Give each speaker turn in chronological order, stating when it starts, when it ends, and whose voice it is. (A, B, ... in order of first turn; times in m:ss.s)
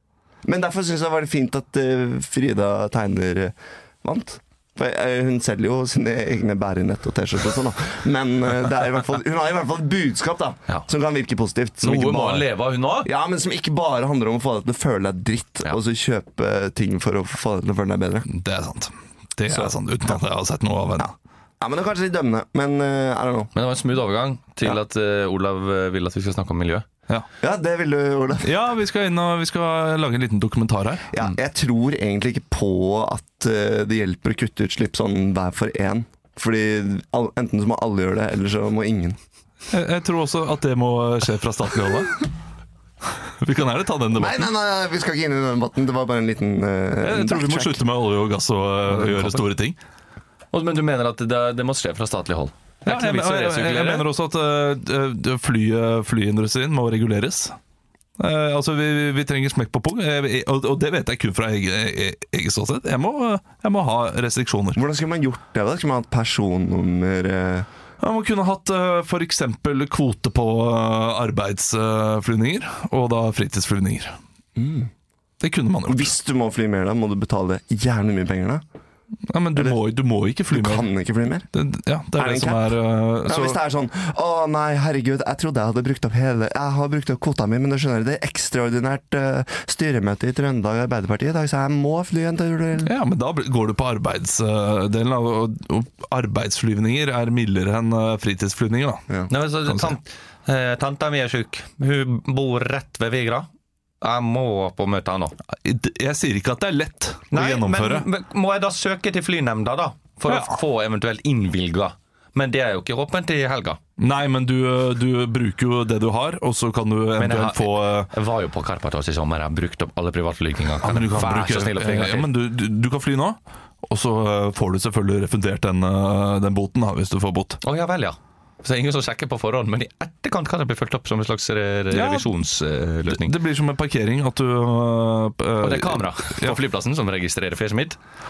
0:00.4-0:18.3 A
0:11.8-0:13.1 B
0:18.3-0:21.1 C
0:19.5-0:19.8 A
0:21.6-0:23.5 A
0:23.6-0:26.9 B
0:27.4-0:28.5 A
0:28.4-0:31.1 C
0:31.1-0:39.2 A
0:39.7-0:42.3 C
0:43.4-0:44.5 C
0:44.2-0:47.8 A
0:47.0-0:49.8 C
0:50.5-0:54.1 B
0:52.9-0:57.6 C
0:58.2-1:04.8 C
1:04.8-1:07.7 A
1:08.0-1:14.2 C
1:14.6-1:14.9 A
1:15.4-1:16.2 C
1:15.9-1:18.6 A
1:19.3-1:20.9 C
1:20.5-1:21.5 A
1:21.5-1:23.6 C
1:22.2-1:32.9 A
1:32.8-1:39.1 C
1:39.3-1:43.5 B
1:39.6-1:40.0 C
1:44.0-1:45.4 B
1:45.6-1:48.1 C
1:47.3-1:53.8 B
1:50.3-1:50.6 C
1:54.0-1:58.1 C
1:57.2-2:02.3 B
2:00.8-2:07.6 C
2:07.6-2:13.4 B
2:11.9-2:12.3 C
2:13.1-2:16.6 C
2:15.6-2:18.0 B